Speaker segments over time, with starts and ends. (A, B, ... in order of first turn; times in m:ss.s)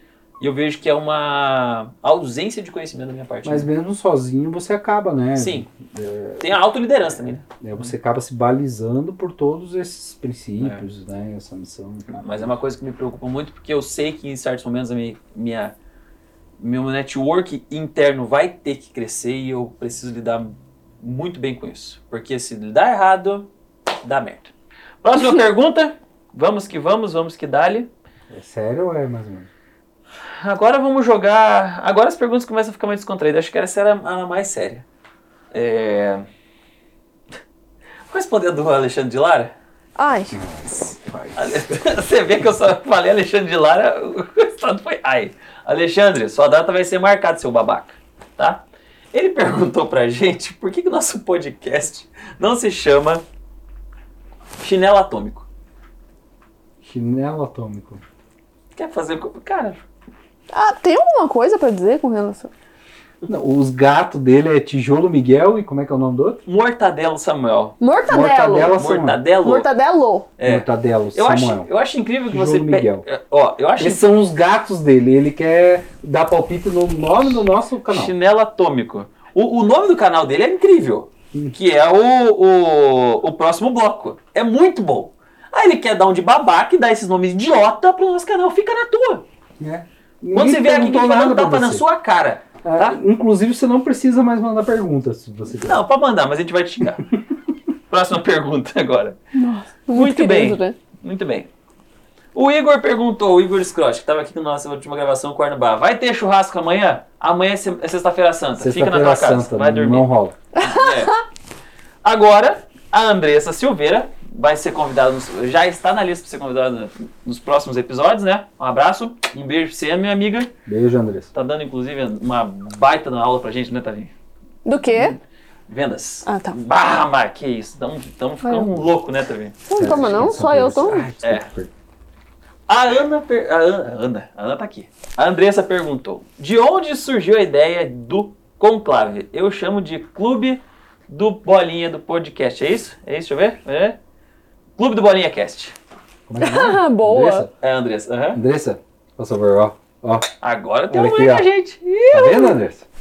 0:00.4-0:03.7 A
0:03.4-0:06.5 B
0:05.4-0:05.7 A
0:06.4-0:07.9 A
0:07.4-0:12.4 B
0:10.6-0:10.8 A
0:12.1-0:15.8 A
0:16.6-0:23.5 A
0:24.0-0:24.5 A
0:25.0-0:27.9 A
0:28.3-0:29.5 B
0:30.4-0:34.8 A
0:35.5-0:36.2 A
0:38.1-0:39.5 A
0:40.0-0:40.4 C
0:40.3-0:41.7 B
0:41.4-0:53.2 A
0:54.6-0:55.4 A
0:56.8-0:58.0 B
0:58.7-0:59.8 A
1:00.5-1:02.5 C
1:03.2-1:06.4 B
1:06.4-1:07.8 A
1:07.8-1:08.8 C
1:08.1-1:09.2 B
1:08.7-1:09.7 A
1:09.4-1:10.3 C
1:10.4-1:14.1 A
1:10.4-1:11.7 B
1:12.3-1:13.0 B
1:13.8-1:18.1 B
1:17.9-1:29.2 A
1:29.6-1:31.8 B
1:30.3-1:33.0 A
1:32.6-1:35.8 B
1:35.5-1:37.1 A
1:37.9-1:39.2 A
1:39.3-1:40.8 C
1:39.9-1:41.5 A
1:42.3-1:51.2 A
1:48.6-1:50.3 B
1:50.6-1:51.1 C
1:52.0-2:00.5 A
2:00.6-2:01.3 B
2:01.3-2:04.1 A
2:04.6-2:05.2 C
2:04.9-2:10.3 A
2:06.2-2:06.6 C
2:08.4-2:08.7 C
2:09.7-2:11.1 C
2:09.7-2:11.7 B
2:11.2-2:11.5 A
2:12.7-2:24.0 A
2:24.8-2:25.7 A
2:26.3-2:27.5 B
2:26.4-2:27.5 C
2:27.6-2:28.4 A
2:28.3-2:30.3 B
2:30.4-2:32.6 A
2:30.9-2:31.5 B
2:32.1-2:32.8 B